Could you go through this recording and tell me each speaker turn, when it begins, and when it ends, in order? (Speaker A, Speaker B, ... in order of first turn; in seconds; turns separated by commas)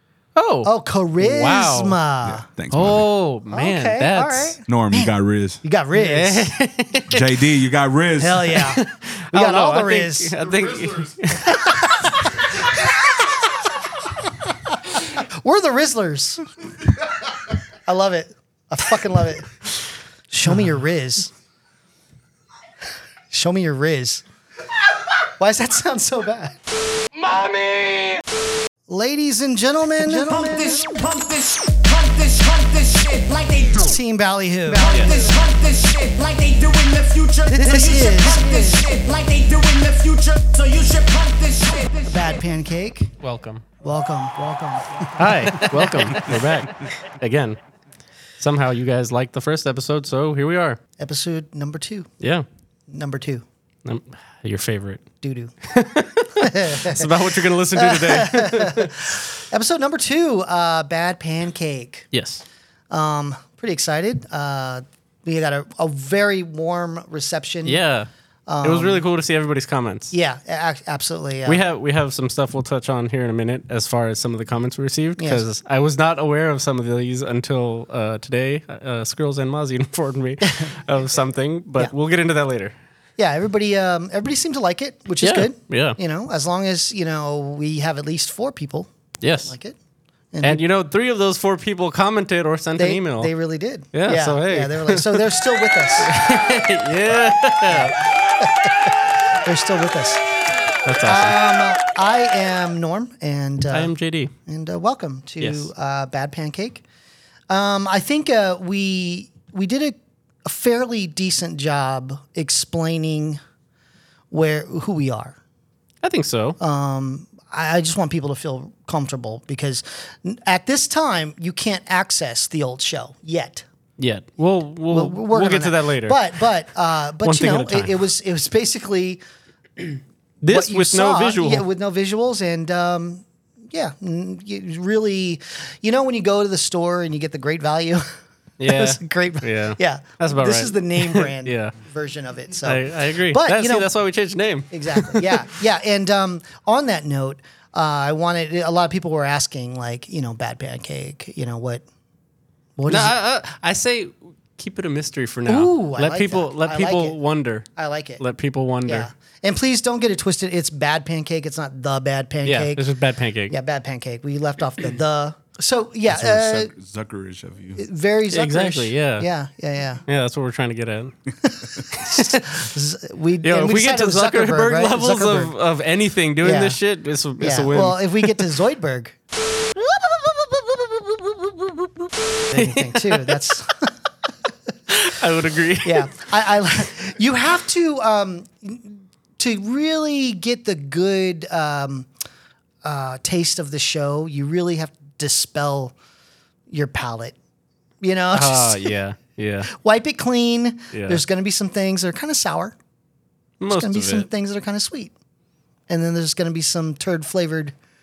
Speaker A: 0.3-2.0, Speaker B: 0.6-2.5, Speaker C: 2.3-3.0, Speaker A: 2.7-4.6, Speaker B: 3.5-5.1, Speaker C: 4.7-5.6, Speaker B: 5.6-6.5, Speaker A: 5.9-7.3, Speaker C: 7.1-8.5, Speaker B: 8.2-8.8, Speaker A: 8.6-11.9, Speaker B: 9.3-10.3, Speaker B: 11.4-13.3, Speaker B: 14.2-16.4, Speaker B: 17.9-19.6, Speaker B: 20.3-21.3, Speaker B: 23.3-24.2, Speaker B: 25.4-26.6, Speaker D: 27.4-27.8, Speaker B: 28.9-30.9, Speaker D: 30.0-34.0, Speaker B: 33.8-35.3, Speaker D: 34.7-42.3, Speaker A: 34.9-35.2, Speaker B: 37.5-38.8, Speaker B: 42.1-43.1, Speaker A: 43.2-43.6, Speaker B: 43.8-46.3, Speaker A: 45.2-47.6, Speaker A: 48.4-50.8, Speaker B: 51.0-52.1, Speaker A: 52.2-52.5, Speaker B: 52.9-53.5, Speaker A: 53.8-55.0, Speaker B: 55.2-55.5, Speaker A: 55.7-59.1, Speaker B: 56.4-62.1, Speaker A: 62.1-62.4, Speaker B: 62.9-67.8, Speaker A: 67.6-68.1, Speaker B: 68.5-69.0, Speaker A: 68.6-70.1, Speaker B: 70.1-71.6, Speaker A: 71.5-82.7, Speaker B: 75.2-75.5, Speaker B: 80.5-80.7, Speaker B: 83.2-88.9, Speaker A: 85.2-86.0, Speaker A: 89.2-89.5, Speaker B: 89.4-89.8, Speaker B: 90.3-90.6, Speaker A: 90.4-93.3, Speaker B: 92.8-96.2, Speaker A: 93.9-95.3, Speaker A: 96.0-98.0, Speaker B: 97.7-100.2, Speaker A: 100.8-101.4, Speaker B: 101.0-103.9, Speaker A: 103.7-104.3, Speaker B: 104.5-106.8, Speaker A: 105.4-105.7, Speaker B: 107.5-113.4, Speaker B: 114.3-115.4, Speaker A: 116.0-116.6, Speaker B: 116.6-123.6, Speaker A: 124.0-126.3, Speaker B: 124.9-129.2, Speaker A: 127.2-127.9, Speaker A: 130.4-131.7, Speaker B: 130.5-138.0, Speaker A: 138.6-141.7, Speaker B: 138.6-143.9, Speaker A: 142.6-145.4, Speaker B: 144.7-151.8, Speaker B: 152.8-153.1, Speaker A: 152.9-157.7, Speaker B: 155.5-157.2, Speaker B: 157.8-158.2, Speaker A: 158.2-159.1, Speaker B: 158.8-162.8, Speaker A: 162.4-163.5, Speaker B: 163.5-166.7, Speaker C: 166.1-167.8, Speaker B: 167.8-170.0, Speaker A: 168.3-169.3, Speaker A: 170.1-171.1, Speaker B: 171.4-175.5, Speaker A: 171.9-172.6, Speaker A: 173.4-178.5, Speaker B: 176.4-176.8, Speaker B: 177.4-179.2, Speaker A: 179.8-183.4, Speaker B: 182.5-183.9, Speaker A: 184.9-186.1, Speaker B: 185.8-192.1, Speaker B: 192.8-195.9, Speaker B: 196.7-197.3, Speaker B: 198.0-198.9, Speaker A: 198.3-199.7, Speaker B: 199.7-202.8, Speaker A: 200.9-201.2, Speaker A: 203.6-204.3, Speaker B: 203.7-205.1, Speaker B: 205.9-207.7